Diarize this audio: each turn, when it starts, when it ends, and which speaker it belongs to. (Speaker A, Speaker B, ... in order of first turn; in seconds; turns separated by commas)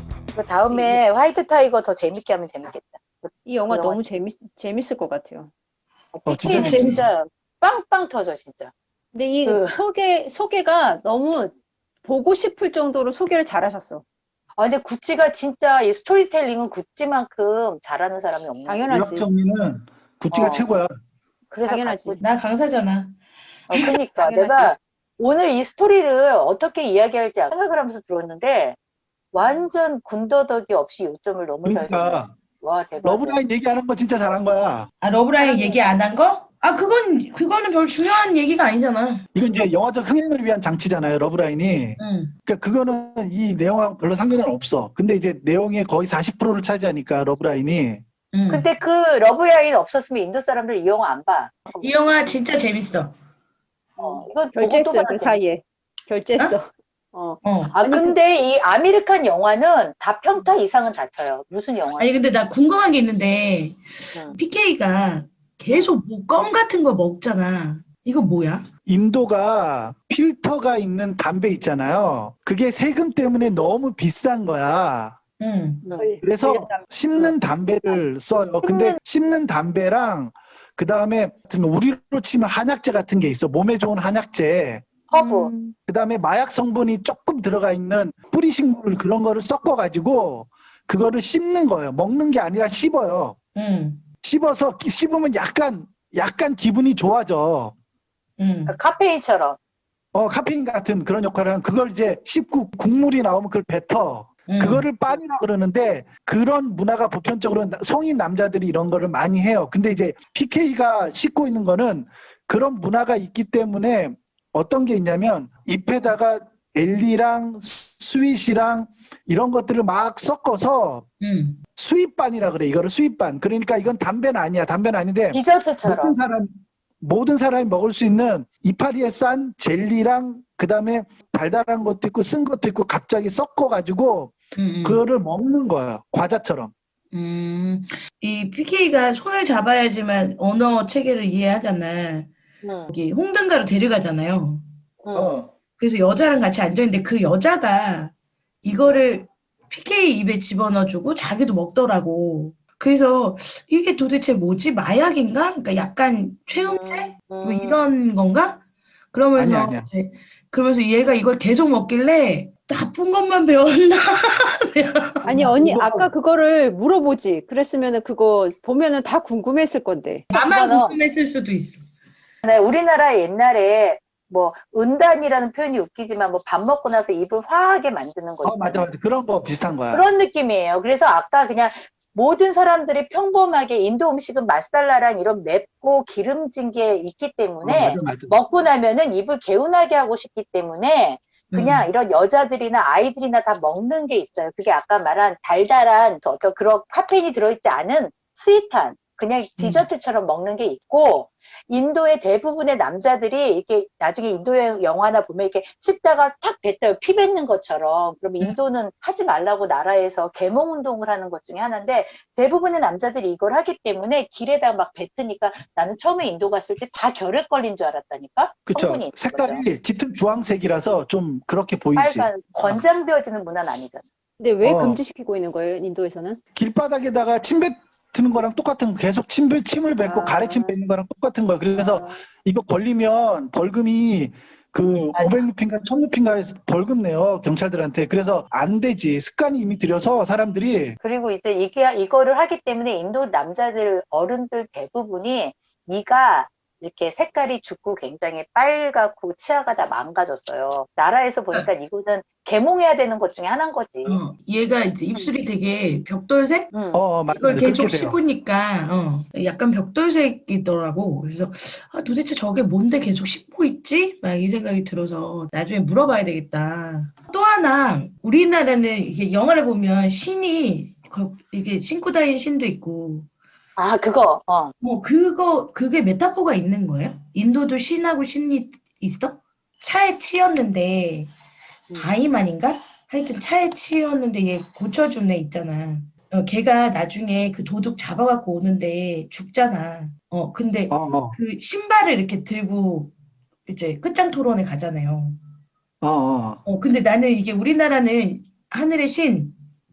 Speaker A: 0.3-4.0, Speaker B: 0.7-1.0, Speaker B: 3.5-5.5, Speaker A: 6.1-8.7, Speaker C: 6.2-7.0, Speaker B: 6.5-6.9, Speaker B: 9.1-14.0, Speaker A: 9.4-9.8, Speaker A: 14.6-18.9, Speaker B: 18.7-19.3, Speaker C: 18.9-20.9, Speaker A: 20.3-20.7, Speaker A: 21.5-22.2, Speaker B: 21.6-22.2, Speaker D: 22.2-23.1, Speaker A: 23.7-28.8, Speaker B: 24.2-24.8, Speaker A: 29.3-33.4, Speaker C: 31.6-32.3, Speaker C: 33.0-34.9, Speaker D: 35.0-39.2, Speaker A: 35.4-36.0, Speaker C: 39.3-48.0, Speaker D: 42.0-42.3, Speaker D: 48.3-48.7, Speaker A: 48.5-52.1, Speaker D: 51.8-53.1, Speaker A: 54.0-55.4, Speaker B: 54.0-58.2, Speaker D: 57.4-57.7, Speaker A: 57.7-62.1, Speaker D: 62.0-68.7, Speaker A: 65.7-65.9, Speaker C: 68.8-75.2, Speaker D: 75.4-75.8, Speaker B: 75.9-77.3, Speaker C: 76.2-84.8, Speaker A: 78.6-79.0, Speaker A: 85.1-85.5, Speaker B: 85.1-85.7, Speaker C: 85.9-93.4, Speaker D: 93.5-94.0, Speaker C: 94.2-97.7, Speaker D: 98.4-98.8, Speaker A: 98.7-99.6, Speaker C: 100.1-121.0, Speaker D: 104.5-104.8, Speaker D: 121.2-121.6, Speaker C: 121.8-136.7, Speaker A: 125.3-126.2, Speaker D: 134.6-135.0, Speaker D: 137.1-142.3, Speaker A: 142.6-142.9, Speaker D: 142.9-144.6, Speaker A: 145.0-145.3, Speaker C: 145.1-145.5, Speaker D: 145.8-148.1, Speaker D: 148.6-158.6, Speaker A: 148.7-149.0, Speaker A: 156.5-157.9, Speaker D: 159.1-165.5, Speaker C: 159.3-159.9, Speaker B: 165.2-170.2, Speaker C: 165.5-166.1, Speaker A: 170.3-171.0, Speaker D: 170.3-171.8, Speaker A: 172.4-178.9, Speaker C: 178.4-180.0, Speaker A: 179.9-219.6, Speaker C: 187.6-188.3, Speaker D: 191.5-191.9, Speaker D: 199.6-199.8, Speaker C: 218.7-222.8, Speaker A: 221.9-224.0, Speaker B: 224.4-226.4, Speaker C: 224.6-225.0, Speaker C: 226.5-241.0, Speaker B: 230.0-230.8, Speaker B: 231.8-232.2, Speaker A: 235.2-235.5, Speaker A: 241.0-254.2, Speaker D: 254.0-256.7, Speaker A: 256.7-257.6, Speaker C: 256.9-258.2, Speaker D: 257.3-273.3, Speaker A: 273.8-274.7, Speaker D: 274.8-281.3, Speaker D: 282.0-293.1, Speaker C: 290.9-291.4, Speaker D: 293.7-295.4, Speaker C: 296.0-296.6, Speaker D: 296.7-299.6